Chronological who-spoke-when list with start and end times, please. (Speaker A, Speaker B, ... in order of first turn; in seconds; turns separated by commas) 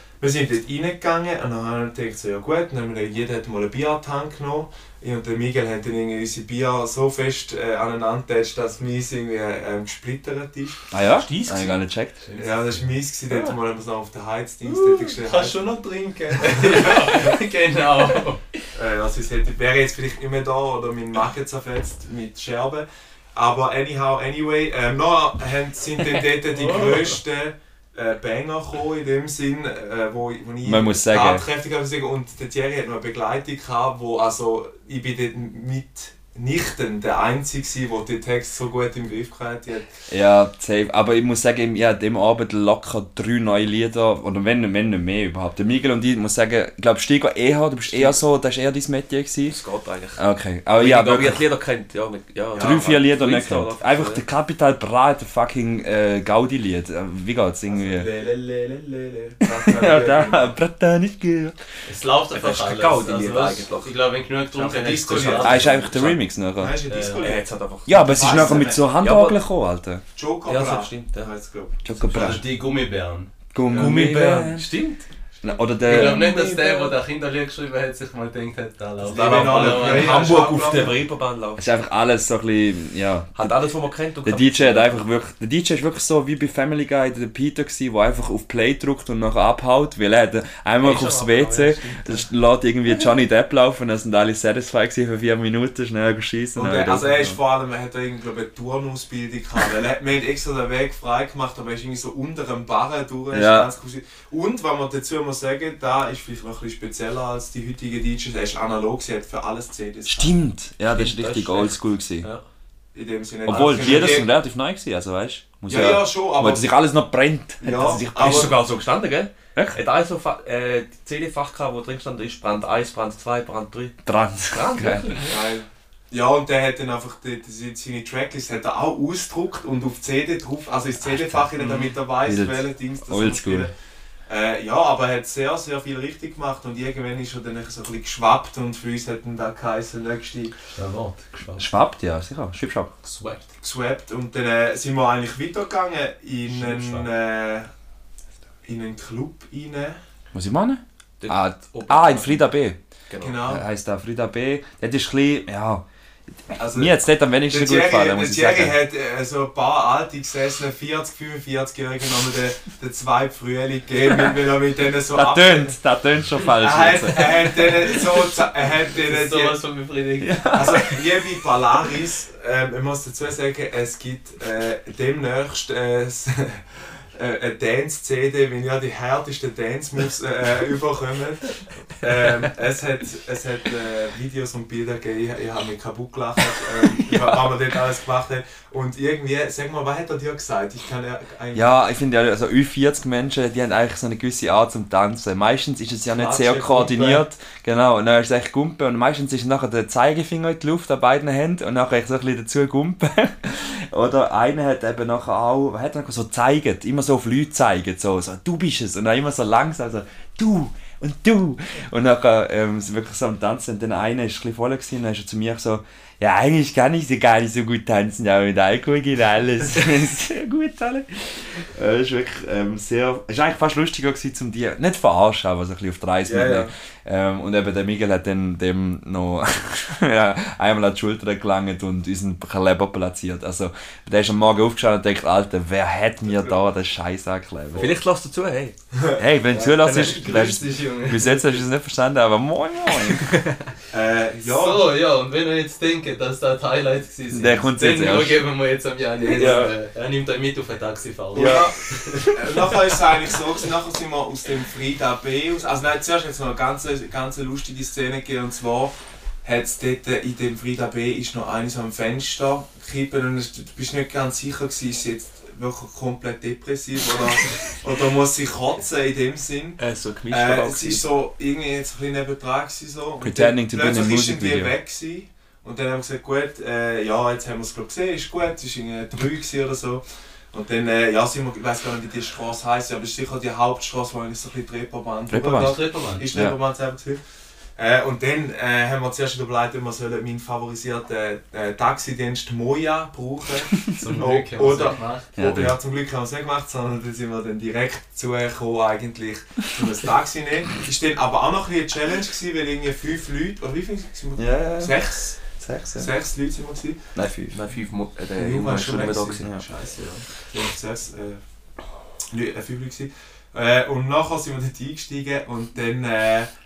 Speaker A: 0.2-10.9, Speaker B: 10.9-12.2, Speaker C: 11.2-13.6, Speaker A: 12.4-15.7, Speaker C: 14.6-18.4, Speaker A: 16.5-17.3, Speaker A: 18.7-39.9, Speaker C: 26.2-27.2, Speaker B: 30.6-31.5, Speaker B: 40.1-49.6, Speaker D: 47.9-48.2, Speaker D: 49.5-50.2, Speaker B: 50.1-51.4, Speaker D: 50.7-54.2, Speaker A: 52.5-53.0, Speaker B: 52.6-58.1, Speaker A: 57.7-60.5, Speaker B: 59.5-61.6, Speaker C: 61.9-66.1, Speaker D: 62.3-63.9, Speaker A: 64.5-67.4, Speaker B: 65.4-66.8, Speaker C: 66.9-67.2, Speaker D: 67.2-69.4, Speaker B: 67.9-70.0, Speaker A: 68.0-68.9, Speaker A: 70.2-71.8, Speaker D: 70.5-71.3, Speaker B: 71.8-72.4, Speaker C: 72.1-73.3, Speaker B: 73.5-74.7, Speaker D: 73.7-75.1, Speaker A: 73.7-74.0, Speaker B: 75.4-76.3, Speaker A: 75.5-76.9, Speaker C: 75.9-80.3, Speaker A: 79.0-81.0, Speaker D: 79.1-81.6, Speaker B: 81.6-83.5, Speaker D: 83.3-85.0, Speaker B: 84.2-97.4, Speaker D: 90.8-92.2, Speaker A: 96.5-110.3, Speaker B: 103.3-103.7, Speaker B: 110.1-112.3, Speaker D: 110.9-112.4, Speaker A: 112.9-114.3, Speaker B: 113.5-118.6, Speaker D: 113.5-114.1, Speaker A: 115.7-116.7, Speaker A: 117.6-118.6, Speaker D: 117.8-124.0, Speaker B: 124.1-125.2, Speaker D: 124.5-125.4, Speaker A: 125.3-133.7, Speaker B: 131.0-131.5, Speaker C: 131.6-131.9, Speaker B: 132.2-133.7, Speaker A: 134.3-140.6, Speaker C: 140.7-141.7, Speaker B: 141.6-142.9, Speaker C: 143.0-143.5, Speaker A: 143.6-147.7, Speaker C: 146.5-147.1, Speaker A: 148.6-150.0, Speaker B: 150.3-152.8, Speaker D: 151.2-152.5, Speaker D: 153.1-153.4, Speaker A: 153.2-153.6, Speaker B: 153.5-155.8, Speaker B: 156.5-158.8, Speaker A: 156.6-165.8, Speaker B: 165.1-168.0, Speaker A: 166.6-169.6, Speaker C: 168.9-170.5, Speaker B: 170.2-171.2, Speaker A: 170.5-176.6, Speaker A: 177.2-191.8, Speaker B: 191.5-238.0, Speaker A: 196.1-197.2, Speaker A: 226.2-226.7, Speaker A: 236.2-236.6, Speaker D: 237.8-238.8, Speaker B: 239.2-243.3, Speaker C: 239.6-241.6, Speaker A: 243.9-244.9, Speaker C: 244.4-252.3, Speaker B: 247.3-248.4, Speaker A: 249.2-249.7, Speaker B: 249.3-249.7, Speaker A: 251.3-251.7, Speaker B: 251.3-251.7, Speaker A: 252.3-287.2, Speaker D: 269.8-271.0, Speaker B: 273.2-274.7, Speaker B: 285.3-285.8, Speaker C: 285.6-286.2, Speaker A: 287.8-305.4, Speaker C: 294.0-295.3, Speaker B: 295.4-295.8, Speaker B: 304.4-306.1, Speaker A: 306.0-307.0, Speaker B: 307.1-307.6, Speaker D: 307.5-310.2, Speaker A: 308.4-311.4, Speaker A: 312.3-316.5